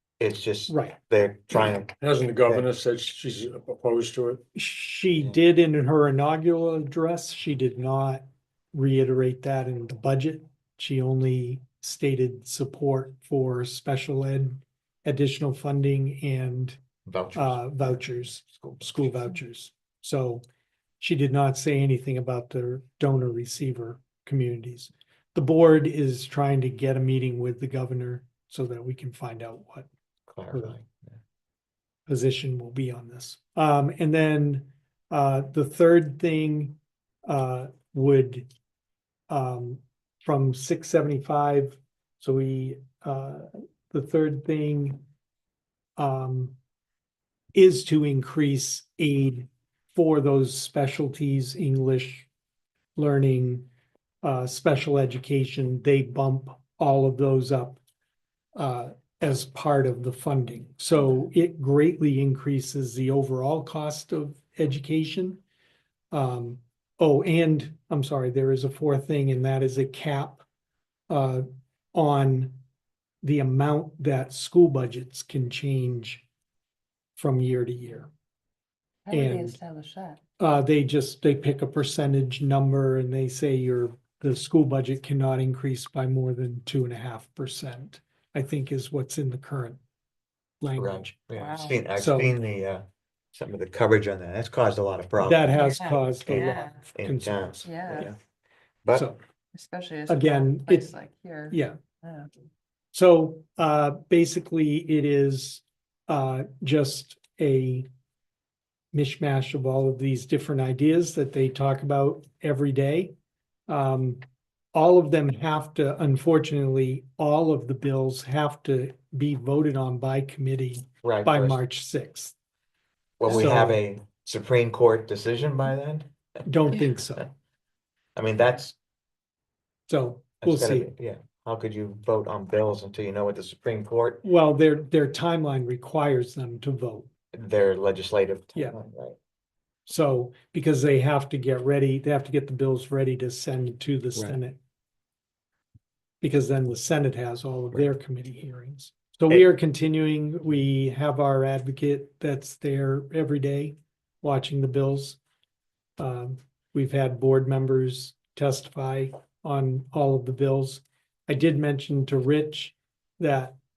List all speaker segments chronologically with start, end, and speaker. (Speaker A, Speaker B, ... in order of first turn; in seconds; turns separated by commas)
Speaker A: 0.2-2.6, Speaker B: 0.7-1.0, Speaker C: 2.0-4.4, Speaker B: 4.5-16.8, Speaker A: 17.1-17.9, Speaker B: 17.3-20.4, Speaker A: 18.5-19.1, Speaker B: 21.0-29.9, Speaker A: 30.3-31.2, Speaker B: 30.5-30.8, Speaker B: 32.1-38.5, Speaker B: 39.3-45.0, Speaker B: 46.0-46.5, Speaker B: 47.5-52.3, Speaker B: 53.0-53.7, Speaker B: 54.2-57.8, Speaker B: 58.5-65.4, Speaker B: 66.1-70.4, Speaker B: 71.1-72.6, Speaker B: 73.2-76.2, Speaker B: 77.2-78.1, Speaker D: 79.0-80.2, Speaker B: 79.1-79.6, Speaker B: 80.4-89.8, Speaker B: 90.6-91.1, Speaker A: 90.8-98.1, Speaker D: 91.3-91.8, Speaker B: 91.9-92.3, Speaker B: 95.2-98.1, Speaker D: 95.5-96.8, Speaker D: 97.6-98.1, Speaker B: 98.9-99.2, Speaker D: 99.5-102.3, Speaker B: 100.1-100.9, Speaker B: 101.5-101.8, Speaker B: 102.9-107.9, Speaker B: 108.9-113.1, Speaker B: 113.7-114.2, Speaker B: 114.7-122.3, Speaker A: 121.0-121.6, Speaker A: 123.2-126.1, Speaker B: 123.3-123.8, Speaker B: 126.4-127.3, Speaker A: 128.2-128.8, Speaker B: 129.9-130.9, Speaker A: 130.4-134.2, Speaker B: 134.2-137.1, Speaker A: 137.3-139.2, Speaker B: 139.9-144.6, Speaker B: 146.2-155.2, Speaker B: 156.0-163.6